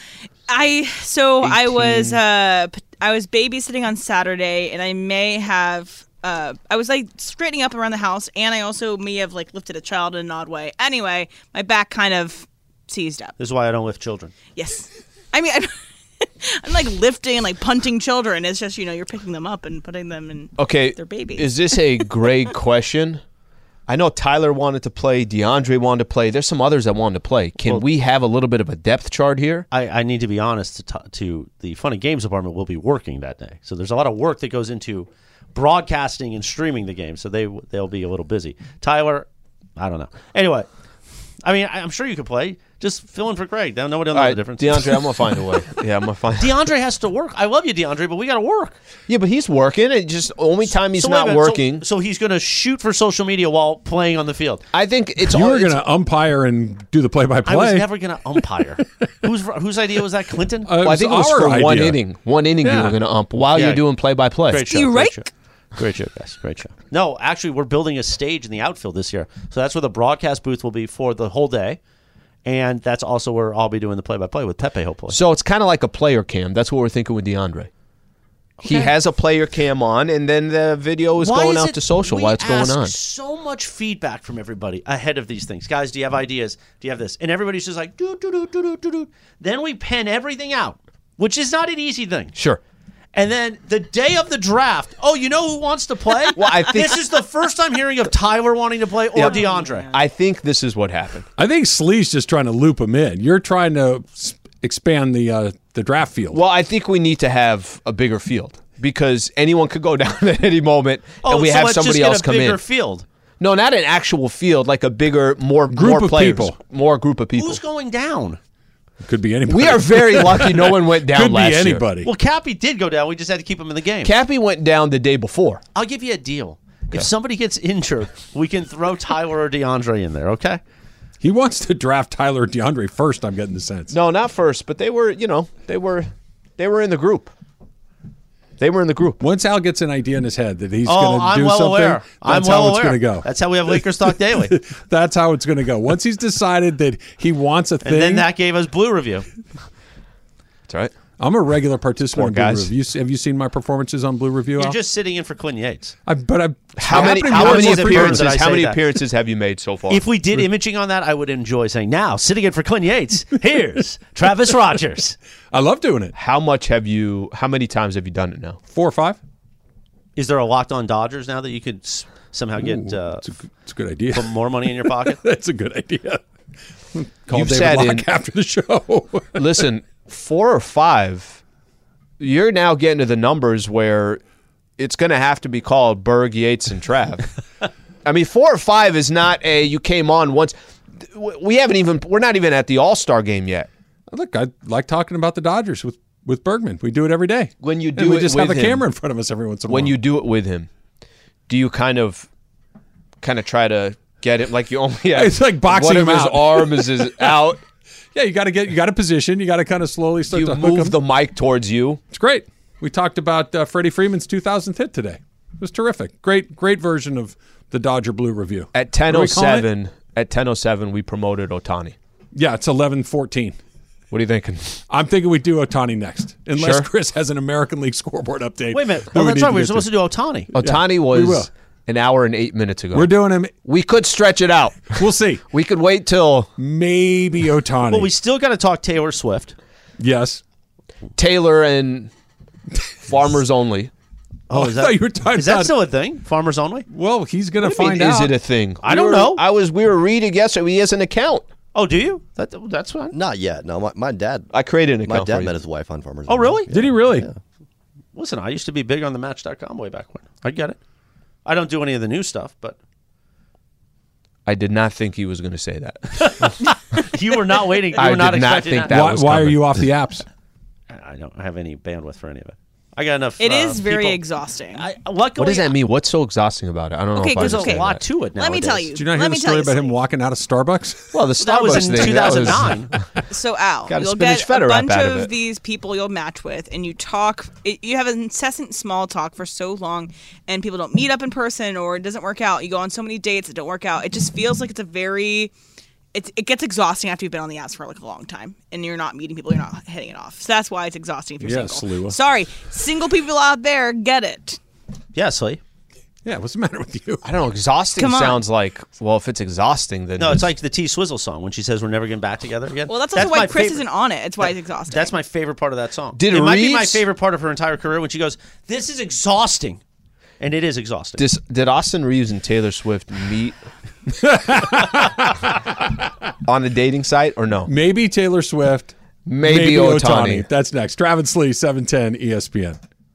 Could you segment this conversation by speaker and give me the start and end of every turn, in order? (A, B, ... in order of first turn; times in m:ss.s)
0:00.5-0:13.4 A
0:01.4-0:02.2 B
0:13.4-0:14.3 C
0:14.5-0:22.1 A
0:20.6-0:23.2 B
0:23.9-0:29.6 B
0:29.7-0:40.7 C
0:41.4-0:45.2 C
0:44.1-0:46.6 B
0:46.4-0:48.7 C
0:49.1-0:51.8 B
0:50.9-0:54.6 C
0:54.7-0:55.8 B
0:55.2-0:57.9 D
0:57.4-1:00.8 C
1:00.6-1:02.0 D
1:00.8-1:04.8 B
1:02.6-1:03.0 D
1:03.5-1:03.8 C
1:04.5-1:11.8 C
1:04.7-1:05.2 A
1:12.4-1:15.2 C
1:15.1-1:17.7 B
1:18.6-1:18.9 C
1:18.6-1:23.0 B
1:21.2-1:32.4 C
1:32.4-1:32.6 B
1:33.1-1:39.9 C
1:36.4-1:37.0 B
1:39.2-1:40.0 A
1:39.9-1:41.3 B
1:41.4-1:46.4 D
1:46.3-1:52.6 B
1:51.2-1:53.0 C
1:53.4-1:57.6 B
1:55.7-1:56.6 D
1:57.4-1:58.4 C
1:59.0-2:02.1 D
1:59.5-2:01.9 B
2:02.0-2:04.1 C
2:04.0-2:05.6 B
2:05.8-2:10.6 C
2:11.2-2:13.9 D
2:13.9-2:17.3 B
2:18.6-2:19.2 B
2:19.2-2:23.8 D
2:20.8-2:24.6 C
2:24.4-2:28.3 D
2:27.8-2:29.3 C
2:31.2-2:34.8 D
2:32.1-2:32.7 B
2:34.6-2:36.0 C
2:36.0-2:38.4 D
2:36.8-2:40.0 B
2:36.9-2:38.8 C
2:39.9-2:45.2 C
2:45.5-2:46.1 D
2:46.1-2:48.6 B
2:48.7-2:49.2 D
2:50.2-2:53.2 C
2:52.6-2:56.2 D
2:54.1-2:55.2 C
2:56.9-2:59.7 D
2:57.3-2:58.1 B
2:59.4-3:01.4 B
3:02.2-3:04.2 B
3:04.8-3:07.3 B
3:08.0-3:13.7 B
3:14.1-3:20.0 D
3:17.6-3:18.9 B
3:19.7-3:20.7 B
3:21.5-3:22.3 B
3:23.2-3:27.6 B
3:25.1-3:27.4 D
3:28.1-3:31.0 D
3:30.3-3:32.0 B
3:32.1-3:39.7 D
3:38.7-3:42.0 B
3:42.4-3:43.6 D
3:44.1-3:44.8 B
3:44.9-3:49.9 D
3:46.6-3:46.9 B
3:48.7-3:50.5 C
3:50.5-3:51.5 D
3:50.5-3:55.0 B
3:52.9-3:53.5 D
3:55.0-3:55.4 D
3:55.5-3:56.5 B
3:56.6-3:58.1 D
3:57.9-3:59.6 C
4:00.0-4:00.4 D
4:01.2-4:02.1 B
4:03.0-4:03.9 B
4:04.5-4:06.9 C
4:04.5-4:05.7 D
4:06.9-4:08.4 D
4:07.6-4:11.4 B
4:08.8-4:09.4 C
4:11.7-4:13.1 C
4:13.1-4:14.5 E
4:14.5-4:15.5 B
4:15.0-4:17.4 E
4:16.3-4:16.7 C
4:16.7-4:17.3 D
4:18.1-4:20.8 C
4:21.4-4:22.8 C
4:24.5-4:26.5 B
4:26.2-4:29.0 C
4:28.0-4:29.8 B
4:28.9-4:30.2 D
4:30.9-4:34.2 C
4:33.4-4:34.9 A
4:34.7-4:35.8 C
4:35.4-4:38.0 B
4:37.2-4:37.8 A
4:37.4-4:38.9 C
4:38.4-4:40.0 A
4:39.0-4:41.2 D
4:41.1-4:42.8 B
4:41.4-4:42.9 C
4:41.8-4:42.6 D
4:43.3-4:55.5 A
4:43.9-4:45.3 B
4:56.1-5:04.6 A
5:01.4-5:02.2 D
5:05.1-5:05.6 C
5:06.2-5:07.2 D
5:07.2-5:10.5 B
5:08.0-5:08.4 A
5:10.2-5:13.8 C
5:12.9-5:15.1 A
5:14.4-5:19.8 C
5:16.2-5:17.0 B
5:20.4-5:21.2 C
5:21.2-5:23.6 B
5:24.2-5:25.6 D
5:26.4-5:27.7 B
5:27.6-5:32.8 D
5:29.2-5:30.5 B